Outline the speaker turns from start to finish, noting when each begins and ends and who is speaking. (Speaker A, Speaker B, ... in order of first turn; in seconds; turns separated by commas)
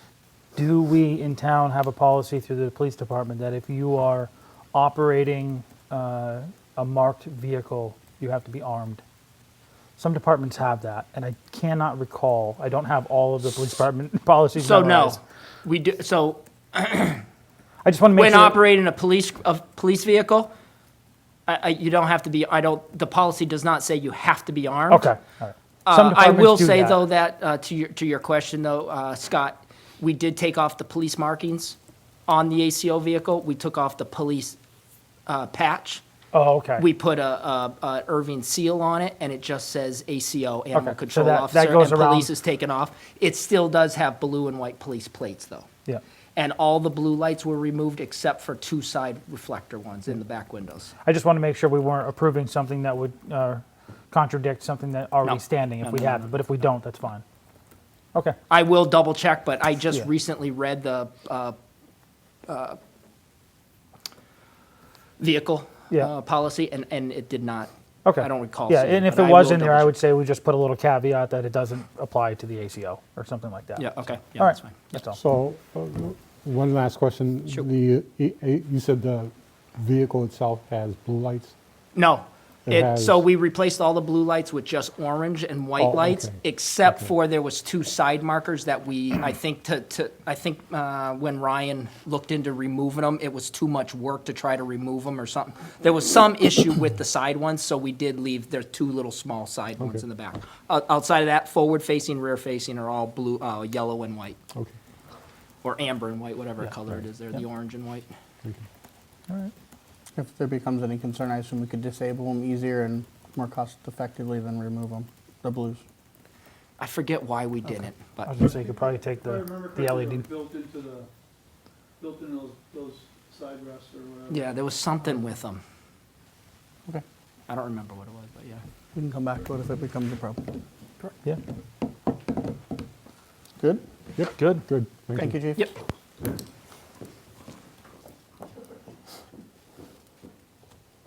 Speaker A: 0.5-9.0, Speaker A: 10.0-15.2, Speaker B: 14.6-17.2, Speaker A: 17.8-18.6, Speaker B: 18.1-20.5, Speaker B: 21.5-25.1, Speaker A: 24.9-27.0, Speaker B: 25.9-34.6, Speaker B: 35.3-36.0, Speaker A: 36.3-36.8, Speaker B: 36.8-45.7, Speaker A: 40.7-42.3, Speaker B: 46.4-50.9, Speaker A: 51.0-57.2, Speaker B: 55.2-56.3, Speaker B: 58.5-61.5, Speaker B: 62.5-62.8, Speaker B: 65.2-69.9, Speaker A: 68.0-75.2, Speaker B: 73.8-75.0, Speaker C: 75.1-81.5, Speaker B: 81.9-104.4, Speaker C: 82.7-83.2, Speaker C: 85.8-87.1, Speaker B: 105.6-108.1, Speaker D: 110.2-115.8, Speaker B: 116.8-118.4, Speaker A: 118.2-120.2, Speaker E: 118.4-121.1, Speaker E: 122.0-124.5, Speaker B: 124.3-125.6, Speaker B: 127.5-128.6, Speaker D: 128.9-130.4, Speaker C: 134.2-135.3, Speaker A: 134.4-134.6, Speaker D: 135.2-135.7, Speaker B: 135.2-135.7